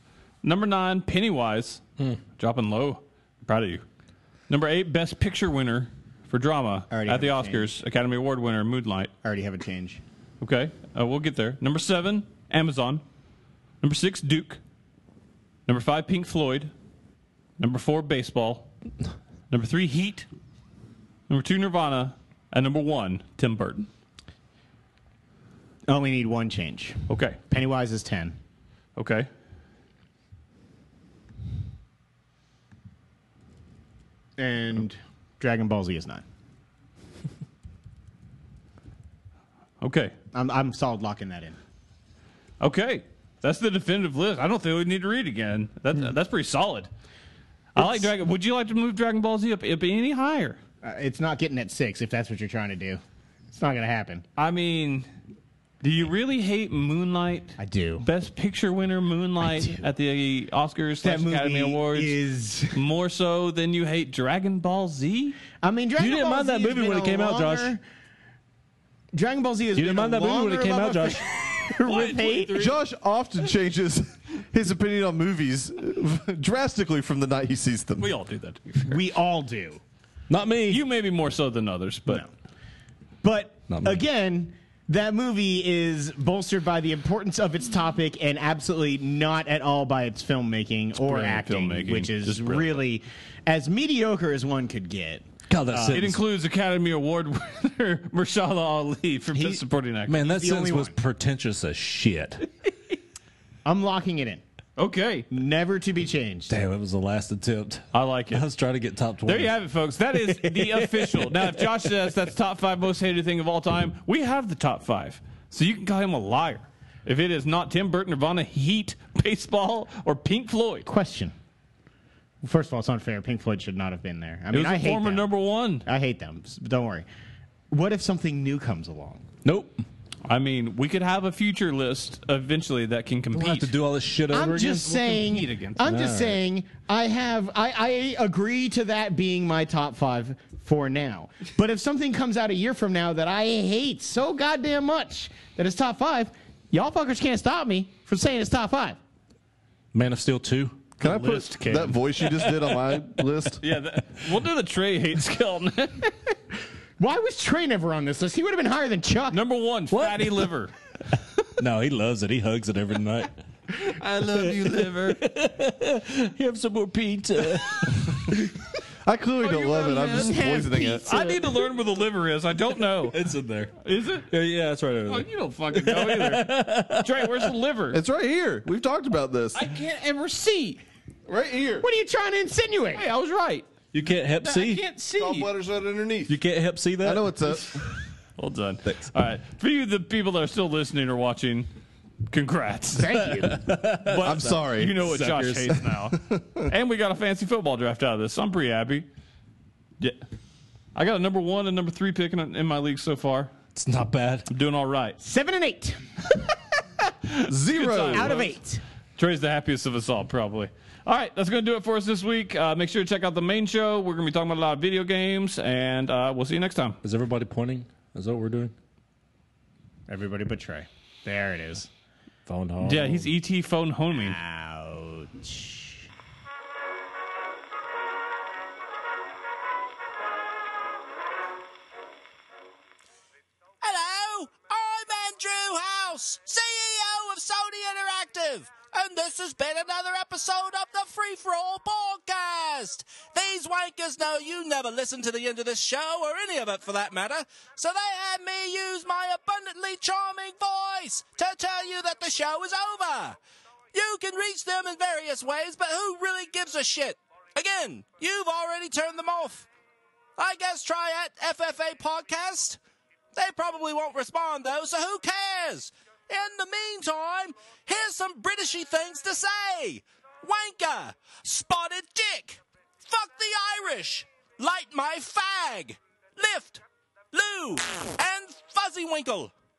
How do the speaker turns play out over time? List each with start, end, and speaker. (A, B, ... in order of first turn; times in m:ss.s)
0:00.4-0:01.8 A
0:02.4-0:03.8 A
0:04.5-0:09.1 A
0:06.9-0:07.7 B
0:09.2-0:10.0 B
0:10.4-0:13.0 A
0:13.8-0:14.6 A
0:15.7-0:16.7 A
0:17.6-0:18.7 A
0:19.5-0:20.3 A
0:21.3-0:23.9 A
0:25.9-0:28.4 B
0:27.1-0:27.4 A
0:29.0-0:29.3 A
0:34.4-0:36.2 B
0:39.8-0:40.1 A
0:40.3-0:41.6 B
0:42.6-0:46.9 A
0:47.8-0:50.6 A
0:47.8-0:48.1 B
0:50.8-0:53.0 B
0:53.5-0:54.2 B
0:54.4-0:55.1 A
0:55.8-1:02.2 A
0:57.6-0:58.1 B
0:59.4-0:59.8 B
1:01.0-1:02.8 B
1:02.7-1:05.4 A
1:05.6-1:07.8 B
1:06.0-1:07.8 C
1:09.1-1:12.6 B
1:09.8-1:11.3 C
1:11.8-1:12.8 A
1:12.5-1:18.1 D
1:18.0-1:19.0 A
1:18.9-1:19.8 B
1:20.3-1:20.8 C
1:20.7-1:22.2 A
1:23.2-1:36.1 B
1:23.7-1:24.0 C
1:31.0-1:32.8 A
1:35.5-1:36.2 C
1:35.9-1:40.2 A
1:39.3-1:39.6 B
1:40.1-1:42.5 C
1:40.2-1:41.0 B
1:43.6-1:44.4 B
1:44.8-1:45.3 A
1:45.3-1:46.6 B
1:46.5-1:49.6 C
1:47.9-1:48.4 A
1:49.3-2:00.9 A
1:50.3-1:51.7 C
2:00.9-2:01.3 B
2:02.4-2:05.3 B
2:04.5-2:05.9 A
2:05.8-2:07.1 B
2:07.7-2:09.2 B
2:09.4-2:09.8 C
2:10.2-2:13.7 A
2:13.3-2:16.4 C
2:14.3-2:29.0 B
2:15.1-2:15.8 A
2:29.9-2:33.0 C
2:31.0-2:33.6 D
2:31.0-2:31.9 A
2:33.6-2:36.1 A
2:37.0-2:39.4 B
2:39.3-2:40.7 A
2:39.9-2:40.5 C
2:41.6-2:43.3 C
2:43.8-2:45.2 A
2:44.3-2:48.4 C
2:49.0-2:51.1 D
2:49.4-2:53.2 A
2:49.6-2:51.5 B
2:53.0-2:53.8 C
2:53.8-2:54.3 A
2:54.3-2:57.5 C
2:55.1-2:58.0 A
2:57.9-2:59.7 D
2:59.6-3:00.8 A
3:01.3-3:01.9 D
3:01.8-3:03.1 B
3:02.9-3:03.7 A
3:03.9-3:04.9 C
3:04.4-3:05.5 A
3:05.1-3:06.4 D
3:06.3-3:07.4 C
3:07.0-3:07.9 D
3:08.4-3:11.7 A
3:12.3-3:13.3 A
3:13.0-3:13.6 B
3:13.2-3:15.8 C
3:14.0-3:19.1 A
3:14.2-3:15.2 D
3:16.2-3:16.6 D
3:21.0-3:23.5 A
3:23.8-3:24.5 C
3:24.5-3:25.2 A
3:25.2-3:26.4 B
3:27.3-3:28.6 A
3:27.5-3:28.4 D
3:28.1-3:28.8 B
3:29.2-3:37.0 A
3:37.0-3:38.7 C
3:40.1-3:41.9 B
3:42.5-3:43.3 C
3:42.8-3:44.4 A
3:44.1-3:46.1 B
3:53.8-4:13.4 E
4:13.9-4:19.7 E
4:20.4-4:22.8 E
4:23.3-4:39.5 E